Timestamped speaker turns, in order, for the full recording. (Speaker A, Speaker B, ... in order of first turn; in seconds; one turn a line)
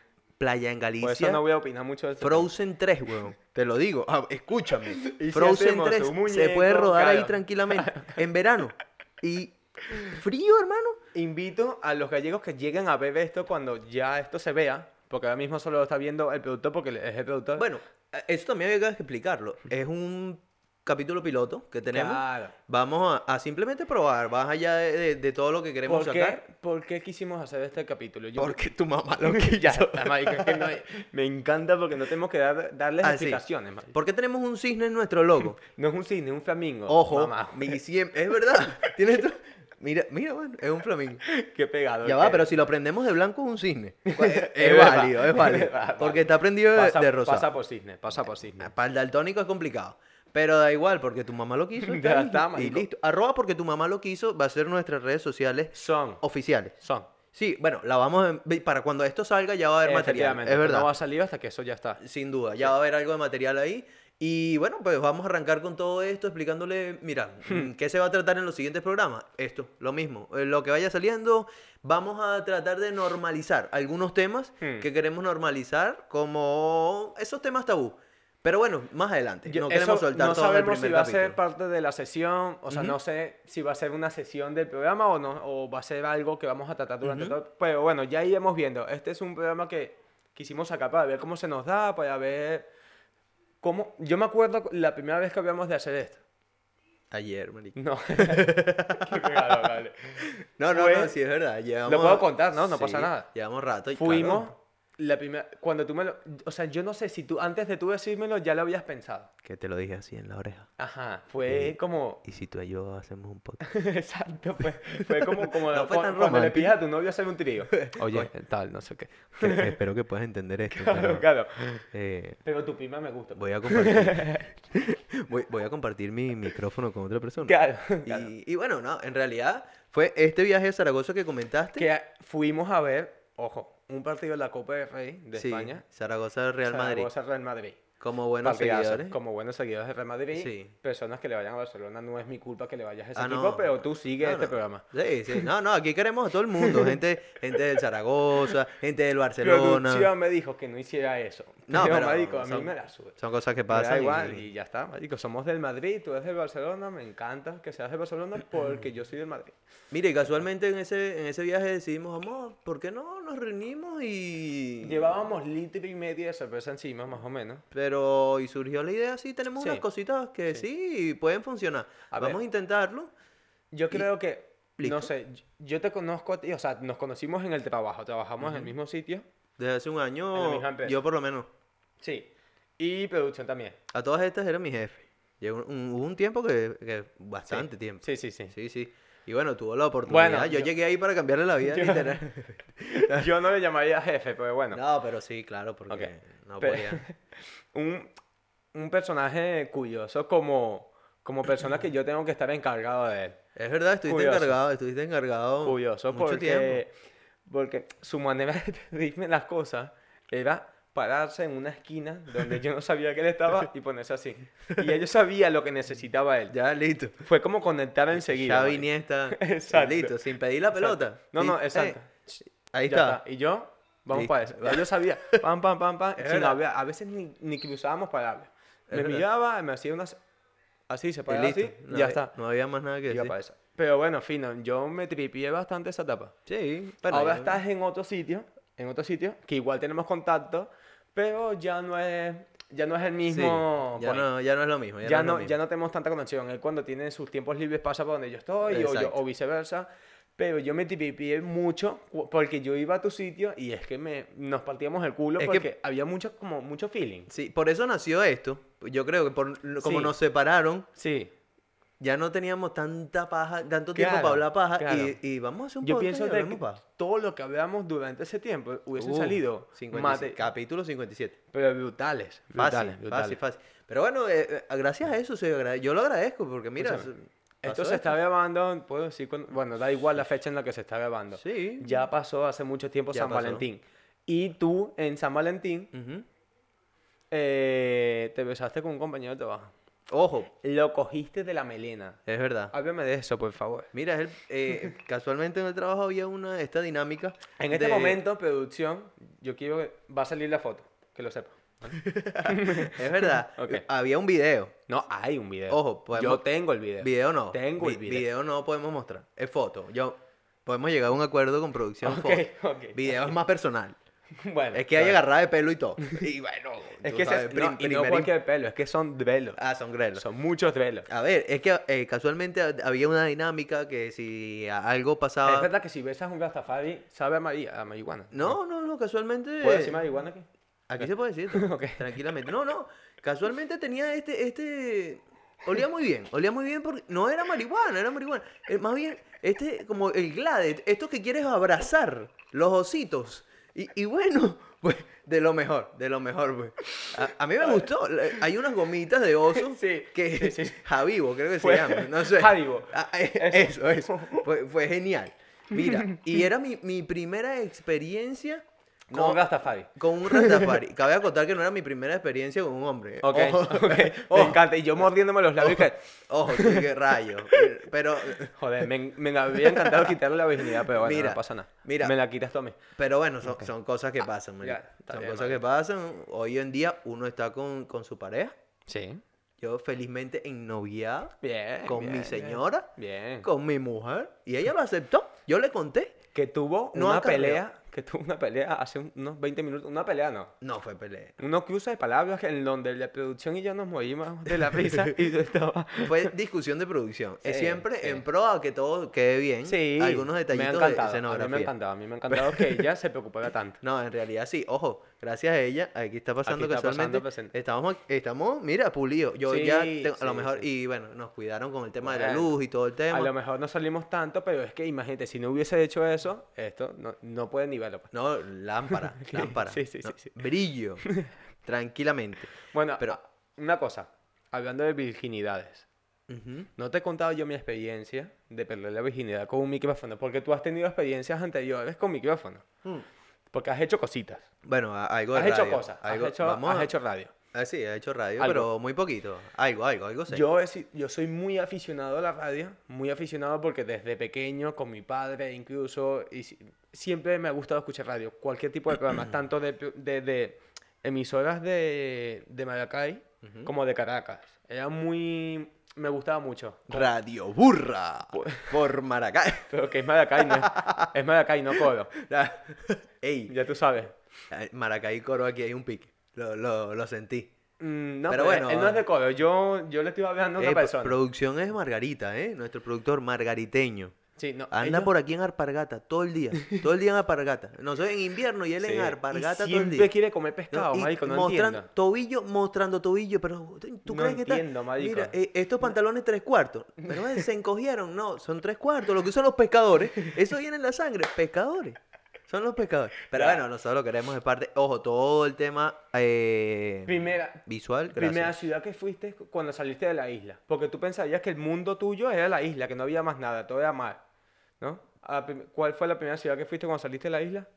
Speaker A: 0.4-1.4
Speaker B: 1.0-2.5
Speaker A: 2.2-11.0
Speaker B: 5.0-8.2
Speaker B: 11.1-17.6
Speaker A: 17.6-26.4
Speaker B: 21.9-22.5
Speaker B: 25.9-28.6
Speaker A: 28.4-30.8
Speaker B: 29.2-33.9
Speaker A: 33.0-35.6
Speaker B: 35.7-37.8
Speaker A: 36.9-41.2
Speaker B: 41.2-42.5
Speaker A: 42.0-47.5
Speaker B: 44.0-48.7
Speaker A: 48.6-56.7
Speaker B: 51.8-52.9
Speaker B: 55.7-56.2
Speaker B: 56.8-57.1
Speaker A: 57.3-60.9
Speaker B: 59.8-62.0
Speaker A: 62.0-81.4
Speaker B: 74.6-74.9
Speaker B: 79.5-92.7
Speaker A: 82.7-83.0
Speaker A: 87.0-87.3
Speaker B: 93.6-96.2
Speaker A: 97.1-104.5
Speaker B: 97.8-101.1
Speaker B: 101.8-103.3
Speaker B: 103.9-109.3
Speaker A: 109.4-110.7
Speaker B: 110.8-112.2
Speaker A: 111.5-113.6
Speaker B: 113.6-119.8
Speaker A: 114.8-116.8
Speaker A: 117.7-118.3
Speaker A: 119.4-121.2
Speaker B: 120.7-121.8
Speaker A: 121.9-122.4
Speaker B: 122.4-124.5
Speaker A: 123.3-131.9
Speaker B: 127.4-128.3
Speaker B: 131.8-135.8
Speaker A: 135.3-137.1
Speaker B: 136.7-137.8
Speaker A: 138.0-139.2
Speaker B: 138.4-145.5
Speaker A: 140.3-140.7
Speaker A: 143.1-150.1
Speaker B: 146.6-147.0
Speaker B: 149.4-153.2
Speaker A: 151.7-154.4
Speaker B: 153.7-159.5
Speaker A: 159.9-165.1
Speaker B: 164.8-167.6
Speaker A: 167.7-173.1
Speaker B: 172.1-172.4
Speaker B: 173.7-179.2
Speaker A: 174.8-175.1
Speaker A: 178.4-178.7
Speaker A: 179.6-181.5
Speaker B: 180.3-181.0
Speaker B: 182.0-182.3
Speaker B: 182.8-183.8
Speaker A: 183.9-193.3
Speaker B: 187.5-188.5
Speaker B: 190.1-190.7
Speaker B: 191.6-192.2
Speaker B: 192.8-194.8
Speaker A: 194.7-197.0
Speaker B: 195.9-198.1
Speaker B: 198.7-203.4
Speaker A: 203.6-206.8
Speaker B: 204.1-204.6
Speaker B: 205.6-206.9
Speaker B: 207.4-216.5
Speaker A: 216.5-217.2
Speaker B: 217.2-220.2
Speaker A: 218.1-222.0
Speaker B: 220.7-230.2
Speaker A: 222.7-223.2
Speaker A: 224.1-225.4
Speaker A: 226.2-226.6
Speaker A: 228.9-229.2
Speaker B: 230.9-232.3
Speaker A: 231.3-233.3
Speaker B: 233.1-236.3
Speaker A: 236.4-237.6
Speaker B: 237.1-244.3
Speaker A: 243.3-245.5
Speaker B: 245.0-257.3
Speaker A: 248.7-249.2
Speaker A: 255.4-255.7
Speaker A: 257.3-260.9
Speaker B: 259.8-260.1
Speaker B: 260.9-261.3
Speaker A: 262.0-266.8
Speaker B: 263.9-265.1
Speaker B: 265.8-270.4
Speaker A: 269.0-271.4
Speaker B: 271.5-273.4
Speaker A: 272.5-278.1
Speaker B: 276.8-277.1
Speaker B: 277.6-285.9
Speaker A: 281.3-282.0
Speaker A: 283.1-283.6
Speaker A: 285.9-286.2
Speaker B: 287.3-289.7
Speaker A: 290.1-290.5
Speaker B: 290.6-292.2
Speaker A: 292.2-292.7
Speaker B: 292.7-293.9
Speaker A: 293.9-298.2
Speaker B: 297.6-303.8
Speaker A: 301.9-304.7
Speaker B: 304.9-308.3
Speaker A: 305.7-306.4
Speaker A: 307.0-314.0
Speaker B: 312.0-313.3
Speaker B: 314.4-315.2
Speaker A: 314.7-318.3
Speaker B: 317.0-319.6
Speaker A: 319.6-320.2
Speaker B: 320.1-321.1
Speaker A: 321.1-325.7
Speaker B: 325.4-328.6
Speaker A: 328.3-330.0
Speaker B: 329.6-330.5
Speaker A: 330.9-359.4
Speaker B: 331.0-332.1
Speaker B: 346.9-347.9
Speaker B: 349.5-350.9
Speaker B: 351.6-354.4
Speaker B: 355.7-356.3
Speaker B: 359.1-360.8
Speaker A: 359.9-364.6
Speaker B: 363.2-366.9
Speaker A: 365.6-368.9
Speaker B: 368.5-372.8
Speaker A: 369.5-372.1
Speaker A: 372.9-378.5
Speaker B: 373.4-373.7
Speaker B: 374.6-375.6
Speaker B: 378.9-379.2
Speaker A: 379.6-382.9
Speaker B: 381.4-383.5
Speaker A: 383.4-386.2
Speaker B: 386.3-390.5
Speaker A: 386.9-387.6
Speaker A: 390.6-391.4
Speaker B: 391.4-396.3
Speaker A: 394.6-395.1
Speaker A: 396.0-401.7
Speaker B: 397.4-398.2
Speaker B: 399.6-403.8
Speaker A: 402.3-402.8
Speaker A: 403.8-413.3
Speaker B: 406.4-407.5
Speaker B: 409.4-410.7
Speaker B: 412.0-412.5
Speaker B: 413.1-418.1
Speaker A: 418.1-421.0
Speaker B: 418.9-420.4
Speaker B: 421.0-421.3
Speaker A: 421.6-423.2
Speaker B: 422.7-425.9
Speaker A: 426.3-426.7
Speaker B: 426.8-432.7
Speaker B: 433.5-434.5
Speaker A: 434.6-436.9
Speaker B: 435.3-437.3
Speaker A: 437.5-440.4
Speaker B: 438.4-438.7
Speaker B: 440.3-457.1
Speaker A: 453.4-453.7
Speaker A: 456.9-459.8
Speaker B: 458.3-458.7
Speaker B: 459.7-462.1
Speaker A: 460.4-461.1
Speaker A: 461.7-463.5
Speaker B: 463.5-464.1
Speaker A: 464.5-467.5
Speaker B: 467.8-471.2
Speaker A: 468.3-469.0
Speaker A: 470.6-474.1
Speaker B: 474.4-475.1
Speaker A: 474.7-480.1
Speaker B: 478.8-481.9
Speaker A: 480.7-498.6
Speaker B: 484.1-485.3
Speaker B: 487.0-487.4
Speaker B: 493.3-493.6
Speaker B: 497.1-504.2
Speaker B: 504.8-507.7